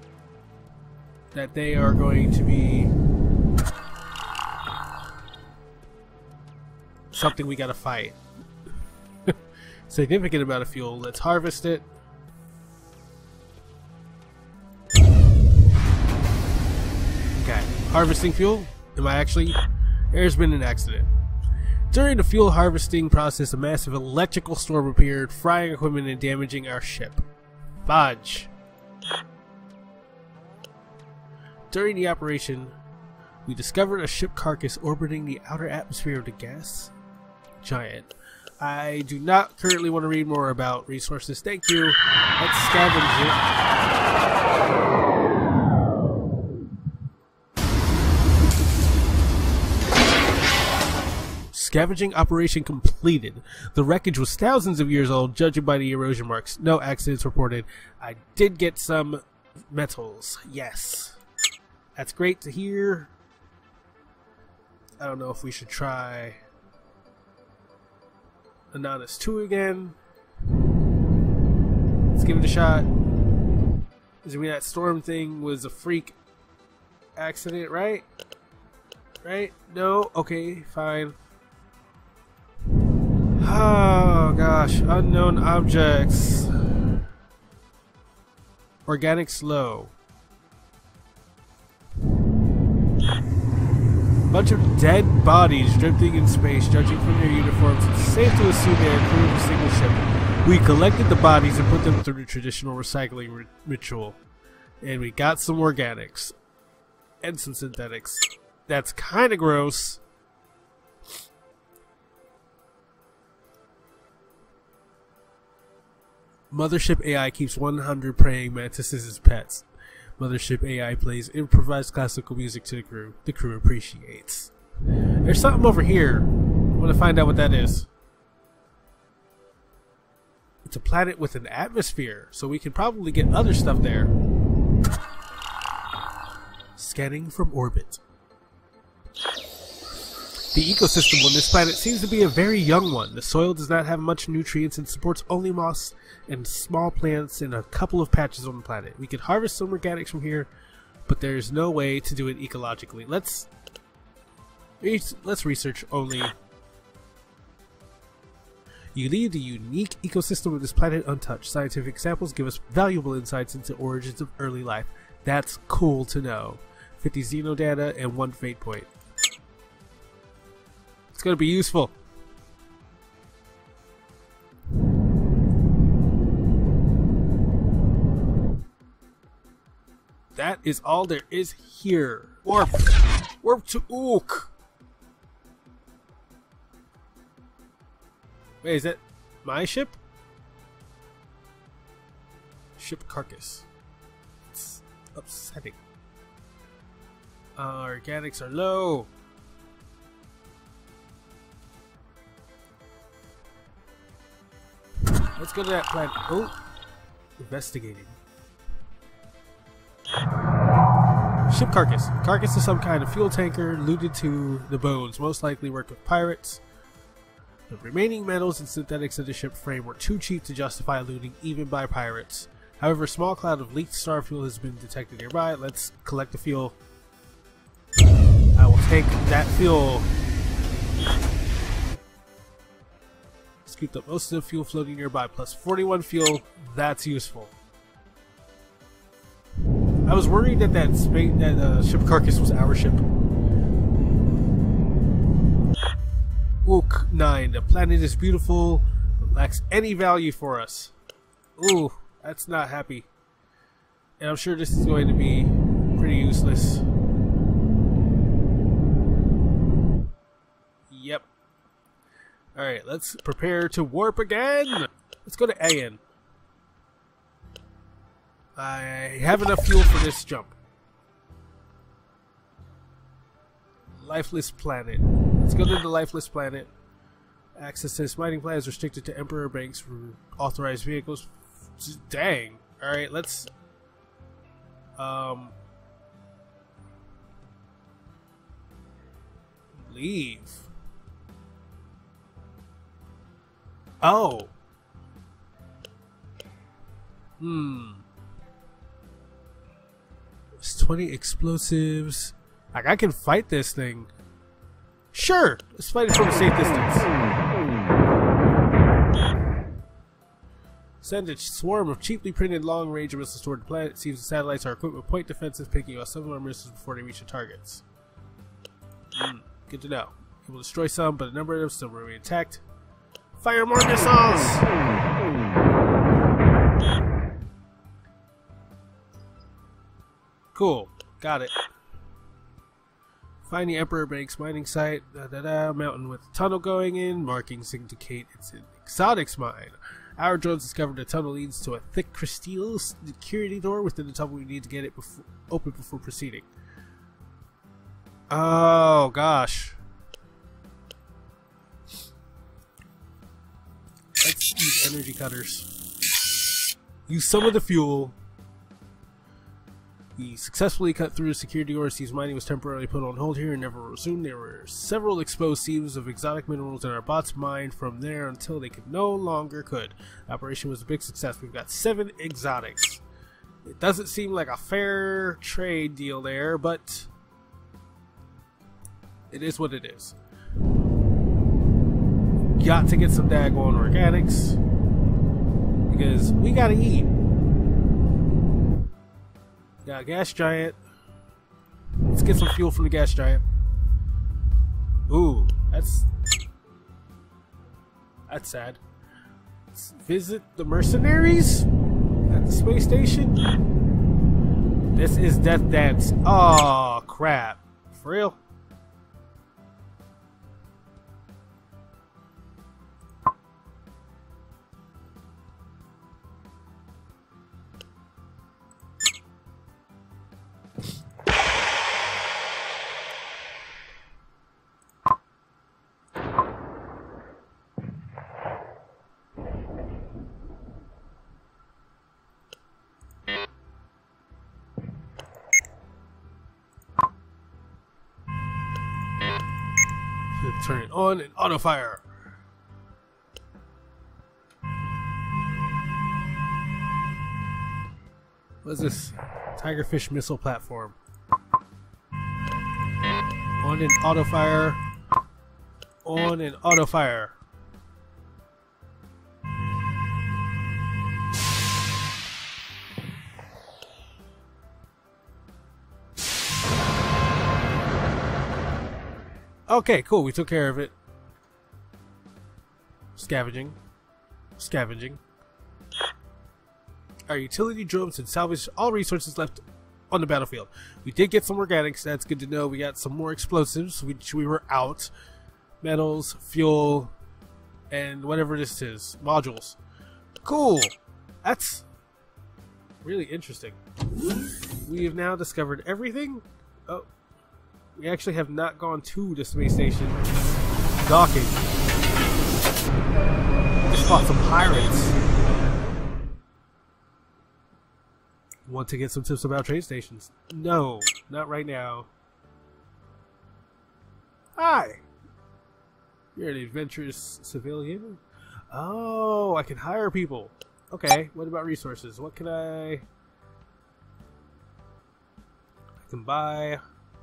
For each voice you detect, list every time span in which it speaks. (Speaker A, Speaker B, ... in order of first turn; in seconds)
Speaker A: 1.3-2.9, 7.1-8.2, 9.9-11.8, 17.4-21.1, 21.9-27.2, 27.8-28.5, 31.7-32.7, 33.5-36.9, 37.6-43.4, 51.5-61.2, 62.0-63.1, 65.0-66.4, 68.7-70.0, 72.1-72.9, 74.2-76.2, 77.2-78.0, 79.2-81.2, 83.4-86.5, 88.8-89.9, 94.3-104.2, 104.8-106.3, 107.2-110.0, 116.5-119.7, 120.2-124.5, 125.2-127.9, 130.6-134.1, 136.8-138.0, 140.5-150.5, 151.1-153.5, 154.8-156.3, 158.9-168.9, 171.1-171.9, 180.3-184.5, 188.6-190.0, 192.8-193.7, 194.5-195.8, 197.6-199.1, 205.3-206.5, 207.4-208.2, 211.5-216.6, 217.7-226.8, 228.6-230.1, 233.7-237.5, 240.1-243.0, 246.6-250.9, 251.6-253.1, 254.2-256.8, 260.9-261.3, 262.5-266.0, 268.6-270.6, 273.9-276.7, 277.6-283.5, 285.0-285.6, 289.7-290.7, 294.0-294.5, 297.4-298.0, 300.6-304.1, 305.1-307.1, 311.0-317.8, 319.1-322.6, 323.4-324.7, 330.5-331.5, 333.4-346.5, 348.3-349.8, 354.2-355.7, 357.1-358.2, 360.1-373.0, 373.6-377.1, 379.3-380.2, 382.5-384.6, 385.9-387.1, 389.8-390.8, 392.1-393.4, 395.1-396.1, 398.3-398.8, 399.7-401.7, 402.3-403.4, 404.9-408.4, 440.4-442.0, 448.6-451.0, 453.6-454.8, 456.0-457.4, 469.7-470.9, 473.1-473.8, 474.6-475.2, 477.3-485.1, 485.8-487.1, 487.9-489.8, 490.4-491.9, 493.0-493.8, 494.8-497.1, 497.9-500.2, 501.0-501.7, 503.9-505.1, 508.7-512.1, 514.6-515.0, 516.4-523.0, 526.0-526.8